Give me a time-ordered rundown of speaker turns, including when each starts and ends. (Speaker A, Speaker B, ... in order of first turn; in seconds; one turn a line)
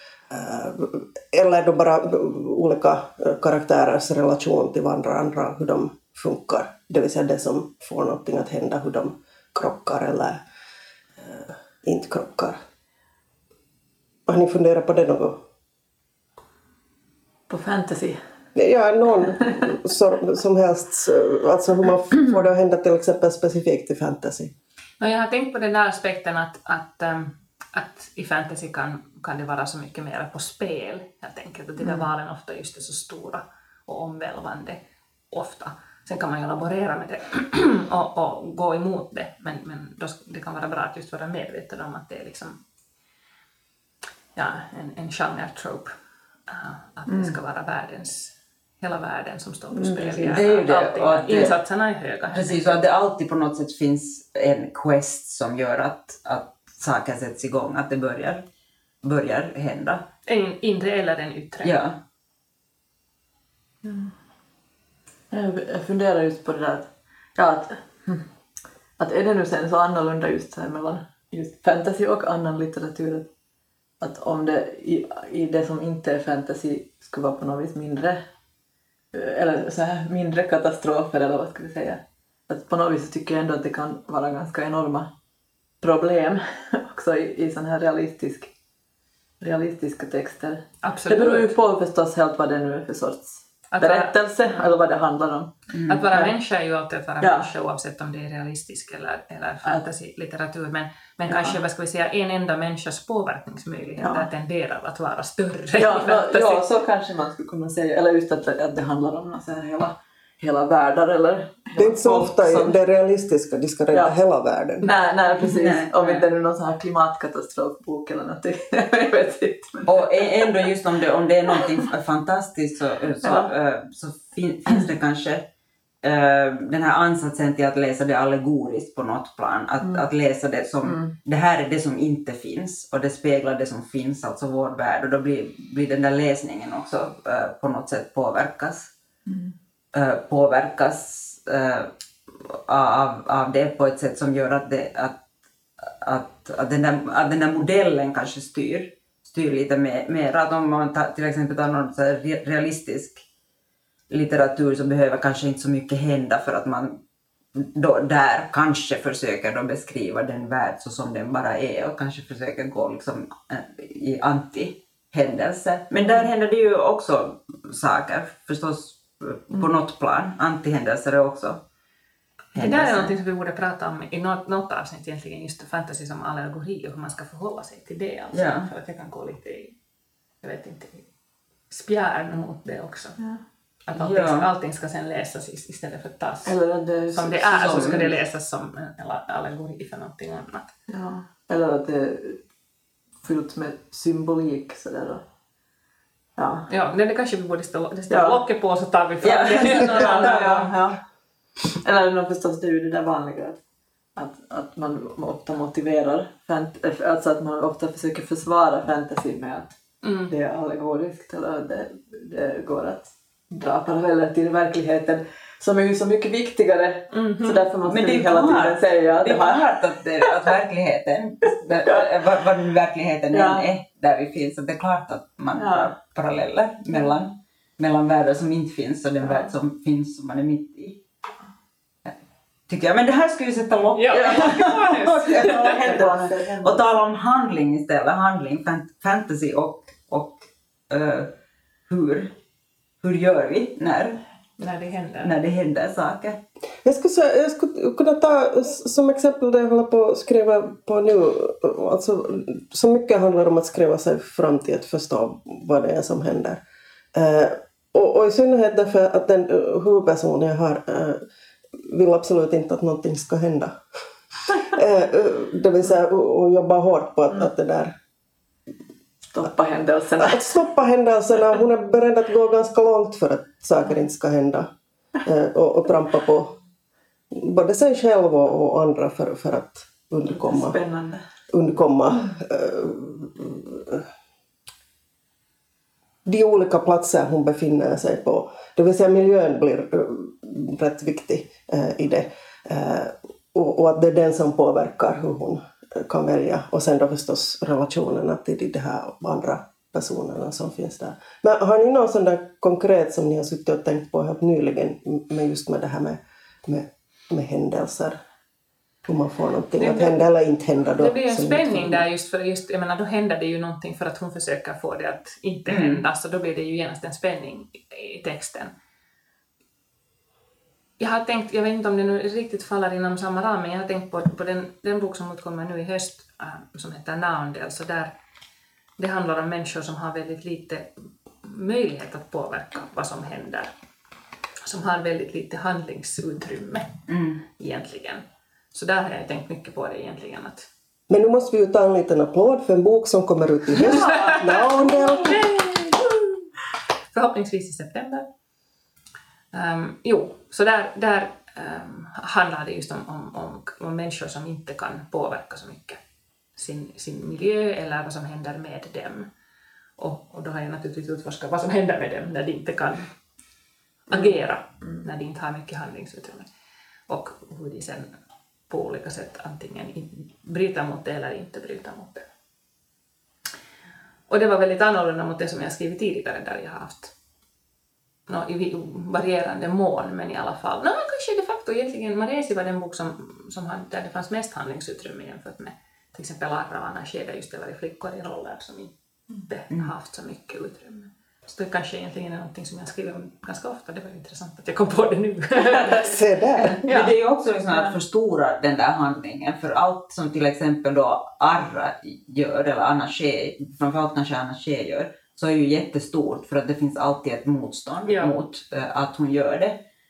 Speaker A: 0.3-10.4
Speaker A: 11.2-12.6
Speaker A: 14.3-15.4
Speaker B: 17.5-18.2
Speaker A: 18.6-24.5
Speaker C: 25.0-34.8
Speaker C: 35.3-42.6
Speaker C: 44.4-45.9
Speaker C: 46.5-52.8
Speaker B: 47.1-47.4
Speaker B: 49.7-50.4
Speaker D: 50.2-51.6
Speaker D: 52.3-58.4
Speaker D: 59.0-60.1
Speaker C: 60.3-61.8
Speaker D: 61.6-62.0
Speaker B: 63.8-64.1
Speaker B: 65.3-68.2
Speaker B: 69.0-73.3
Speaker B: 74.0-78.2
Speaker B: 79.1-85.1
Speaker B: 85.8-88.5
Speaker B: 89.4-96.3
Speaker C: 90.8-91.5
Speaker C: 93.7-94.7
Speaker C: 95.9-106.6
Speaker B: 97.2-97.5
Speaker B: 101.3-101.6
Speaker B: 104.0-104.3
Speaker B: 105.8-112.8
Speaker A: 111.8-114.9
Speaker B: 114.8-120.6
Speaker D: 115.4-116.3
Speaker D: 119.9-125.5
Speaker B: 123.2-123.5
Speaker D: 126.0-138.9
Speaker B: 129.8-130.1
Speaker B: 130.8-131.1
Speaker B: 139.3-139.5
Speaker D: 139.9-141.9
Speaker D: 142.5-145.2
Speaker D: 145.9-153.2
Speaker D: 154.1-157.0
Speaker D: 157.6-171.6
Speaker D: 172.5-173.2
Speaker C: 172.6-179.8
Speaker D: 178.3-178.7
Speaker C: 180.4-181.1
Speaker C: 181.7-183.2
Speaker C: 183.9-186.6
Speaker D: 183.9-184.5
Speaker B: 186.4-188.1
Speaker C: 187.1-190.7
Speaker D: 187.5-188.1
Speaker B: 190.9-192.4
Speaker B: 193.2-195.2
Speaker B: 196.4-196.7
Speaker C: 196.7-200.7
Speaker B: 198.1-198.4
Speaker D: 199.2-200.8
Speaker B: 199.7-201.0
Speaker B: 201.7-203.6
Speaker B: 204.2-209.8
Speaker C: 210.0-210.3
Speaker B: 210.3-220.3
Speaker C: 217.1-217.7
Speaker D: 217.8-231.0
Speaker B: 221.7-222.1
Speaker B: 223.3-223.7
Speaker B: 225.6-225.9
Speaker D: 232.7-241.3
Speaker C: 233.9-236.1
Speaker B: 234.1-234.7
Speaker B: 235.3-236.8
Speaker D: 241.9-242.3
Speaker D: 243.0-244.2
Speaker C: 244.6-245.3
Speaker D: 245.2-246.4
Speaker A: 246.8-256.6
Speaker A: 257.1-261.2
Speaker A: 261.9-263.8
Speaker A: 264.5-267.9
Speaker B: 269.3-270.6
Speaker A: 270.2-274.7
Speaker A: 275.2-276.6
Speaker A: 277.3-280.8
Speaker B: 280.3-281.2
Speaker A: 281.5-284.1
Speaker A: 286.2-308.2
Speaker A: 309.1-312.0
Speaker C: 309.8-310.1
Speaker C: 310.9-318.7
Speaker D: 315.7-316.0
Speaker C: 321.0-328.1
Speaker C: 329.0-330.9
Speaker C: 331.4-333.7
Speaker C: 334.6-337.0
Speaker D: 337.1-337.4
Speaker C: 337.5-340.7
Speaker A: 341.1-345.6
Speaker C: 343.9-345.9
Speaker B: 344.0-344.3
Speaker C: 347.1-348.3
Speaker C: 349.5-356.0
Speaker C: 356.6-359.3
Speaker C: 360.0-363.1
Speaker C: 364.1-366.5
Speaker C: 367.1-368.1
Speaker C: 368.7-372.3
Speaker C: 374.3-377.1
Speaker C: 378.3-388.9
Speaker C: 389.4-397.1
Speaker A: 396.2-396.7
Speaker D: 396.6-409.8
Speaker C: 408.1-408.4